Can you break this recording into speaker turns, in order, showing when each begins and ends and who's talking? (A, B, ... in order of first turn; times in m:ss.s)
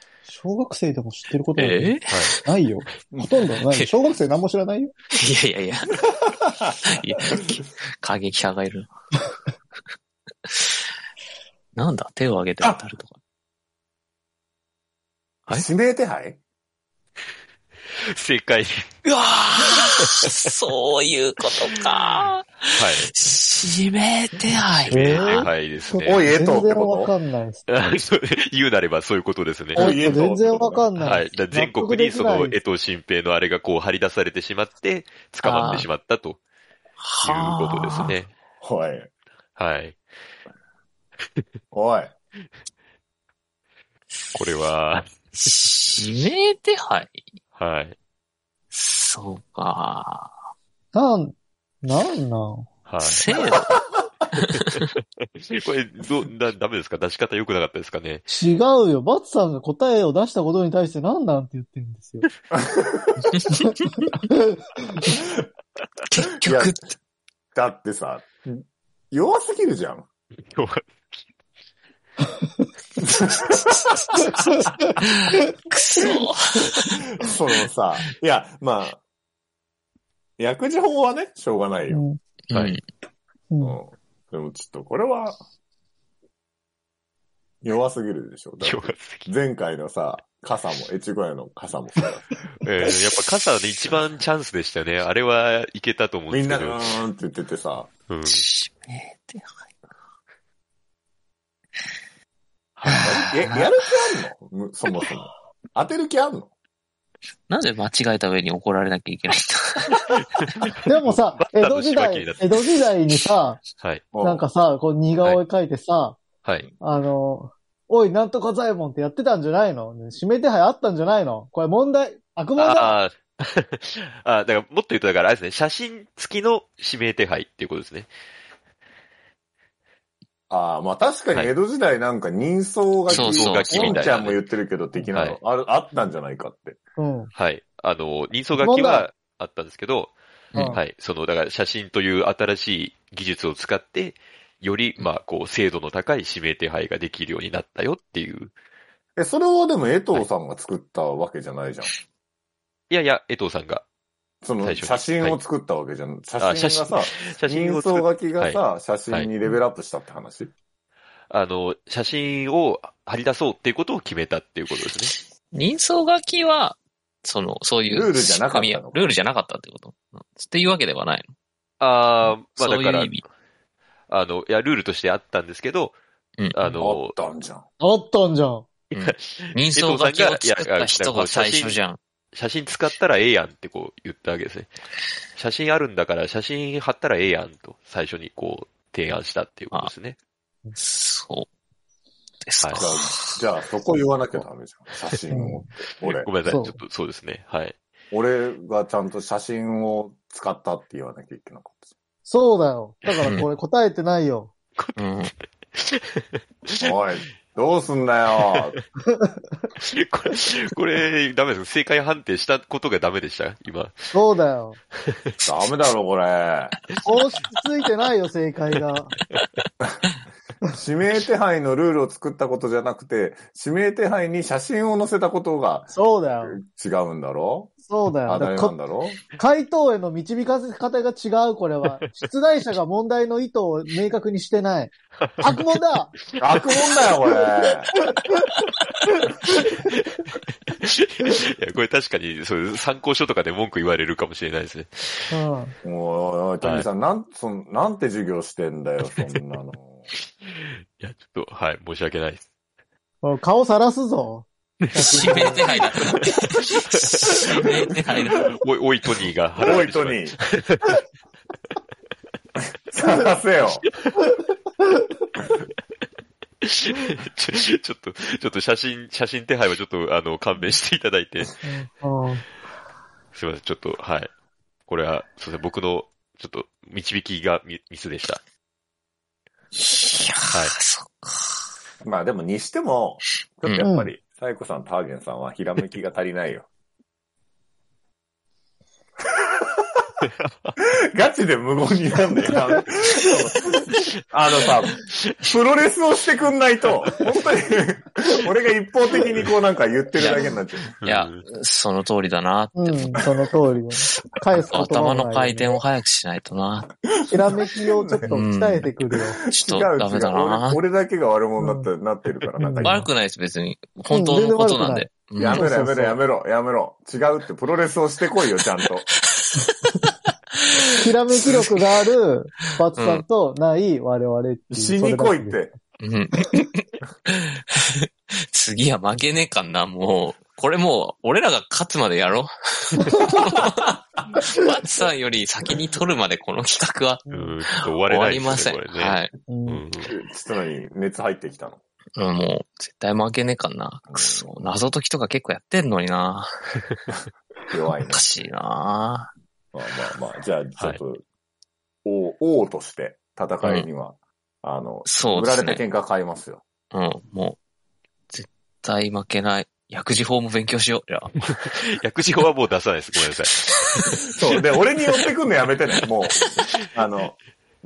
0:00.3-0:04.9 A
0:01.6-0:02.4 B
0:02.1-0:02.4 C
0:03.1-0:03.4 D
0:03.7-0:04.0 B
0:05.1-0:06.0 B
0:06.1-0:07.6 D
0:06.8-0:08.9 B
0:10.4-0:10.8 B
0:11.8-0:13.2 B
0:15.5-0:16.4 D
0:18.1-0:19.0 C
0:19.0-0:25.5 B
0:19.7-0:20.5 C
0:22.8-0:23.1 C
0:24.8-0:26.3 C
0:24.9-0:27.7 A
0:26.0-0:27.1 D
0:27.7-0:30.0 C
0:29.8-0:30.9 D
0:29.8-0:32.6 A
0:31.0-0:36.4 C
0:35.4-0:35.9 B
0:37.0-0:38.2 B
0:37.2-0:38.3 C
0:38.6-0:39.1 D
0:39.6-0:40.0 C
0:41.7-0:42.2 D
0:44.3-0:45.1 C
0:45.4-0:47.2 B
0:47.6-0:48.0 C
0:48.7-0:50.4 B
0:50.9-0:52.7 A
0:52.9-0:53.3 C
0:53.0-0:53.8 B
0:54.4-0:58.2 C
0:58.3-1:02.3 A
1:02.5-1:03.3 D
1:03.4-1:03.6 B
1:03.6-1:05.2 A
1:06.1-1:06.9 B
1:06.4-1:06.8 D
1:07.6-1:08.4 D
1:09.1-1:10.1 D
1:10.5-1:11.0 C
1:13.0-1:14.3 D
1:15.0-1:17.0 B
1:17.1-1:19.0 D
1:20.4-1:22.0 D
1:21.9-1:22.2 A
1:22.5-1:22.8 B
1:22.5-1:22.8 C
1:23.5-1:23.8 A
1:23.6-1:25.4 D
1:27.6-1:32.3 D
1:28.6-1:29.3 C
1:32.6-1:37.0 C
1:36.3-1:37.9 D
1:38.1-1:38.4 C
1:38.2-1:39.6 B
1:42.8-1:43.2 C
1:42.9-1:43.7 B
1:43.0-1:46.5 D
1:47.5-1:50.1 B
1:50.2-1:52.6 C
1:50.9-1:53.6 A
1:53.8-1:54.1 C
1:54.1-1:54.4 D
1:54.2-1:56.2 A
1:56.4-1:56.7 C
1:56.8-2:03.0 A
2:02.6-2:08.1 C
2:10.5-2:16.8 D
2:13.1-2:14.1 B
2:13.1-2:14.4 C
2:15.1-2:15.4 C
2:17.0-2:17.3 A
2:17.4-2:20.1 C
2:18.6-2:19.1 A
2:20.5-2:20.8 B
2:20.6-2:20.8 A
2:20.7-2:28.5 C
2:29.2-2:31.9 D
2:32.9-2:33.8 C
2:34.4-2:40.5 D
2:34.6-2:35.4 C
2:36.4-2:39.3 C
2:41.3-2:45.1 C
2:45.5-2:51.3 B
2:47.9-2:49.2 D
2:51.8-2:53.2 C
2:52.2-2:53.2 B
2:54.1-2:56.0 C
2:56.4-2:56.8 B
2:56.5-2:57.2 C
2:56.8-2:57.6 D
2:57.8-2:58.7 A
2:58.9-3:02.0 B
2:58.9-3:01.8 C
3:02.3-3:04.7 C
3:05.4-3:10.2 C
3:10.8-3:11.5 B
3:12.4-3:13.4 B
3:12.6-3:12.9 C
3:12.8-3:16.3 D
3:15.3-3:15.7 A
3:16.0-3:17.8 C
3:16.5-3:16.8 A
3:18.1-3:21.9 D
3:22.3-3:24.5 A
3:23.2-3:23.5 B
3:25.0-3:25.3 B
3:25.8-3:26.9 C
3:26.8-3:28.8 D
3:28.5-3:28.8 C
3:29.2-3:29.4 A
3:29.8-3:34.1 C
3:34.1-3:34.8 A
3:35.4-3:36.8 D
3:37.0-3:39.1 A
3:40.7-3:47.7 D
3:45.9-3:46.6 A
3:47.9-3:48.8 A
3:48.3-3:49.2 D
3:49.3-3:56.1 A
3:55.2-3:55.6 C
3:56.4-3:57.9 D
3:59.5-4:00.2 C
4:00.7-4:05.3 C
4:05.3-4:05.8 A
4:05.8-4:10.0 D
4:06.6-4:06.9 C
4:10.4-4:12.5 C
4:13.2-4:16.2 A
4:14.8-4:15.6 C
4:15.0-4:18.4 B
4:16.9-4:20.9 C
4:18.1-4:18.3 D
4:19.6-4:20.4 D
4:22.9-4:23.8 D
4:26.6-4:31.5 C
4:31.6-4:32.5 A
4:33.3-4:34.3 C
4:34.9-4:38.4 C
4:39.8-4:41.6 B
4:40.5-4:40.8 C
4:42.0-4:46.7 D
4:43.6-4:43.9 B
4:43.8-4:44.1 A
4:49.4-4:50.0 D
4:50.4-4:50.7 C
4:50.8-5:00.9 D
5:00.2-5:00.5 B
5:01.0-5:01.4 C
5:01.0-5:03.3 B
5:02.8-5:05.8 A
5:04.7-5:06.9 B
5:07.2-5:08.4 D
5:07.3-5:09.4 A
5:08.3-5:08.9 B
5:09.4-5:13.0 D
5:09.5-5:10.8 B
5:11.6-5:11.9 A
5:12.6-5:13.1 A
5:12.8-5:15.7 B
5:14.1-5:16.2 A
5:15.4-5:19.1 D
5:19.3-5:21.8 B
5:20.9-5:25.6 A
5:23.0-5:23.2 B
5:24.7-5:25.7 D
5:26.0-5:37.2 B
5:37.3-5:37.6 A
5:37.3-5:40.1 C
5:37.8-5:39.3 B
5:39.5-5:39.8 A
5:40.1-5:41.8 D
5:42.2-5:46.5 B
5:44.1-5:44.7 D
5:47.7-5:48.3 D
5:48.1-5:49.3 B
5:49.7-5:51.2 D
5:52.0-5:56.6 D
5:55.1-5:55.8 B
5:56.9-5:57.6 B
5:58.3-6:01.5 B
6:01.6-6:04.2 C
6:04.3-6:07.4 D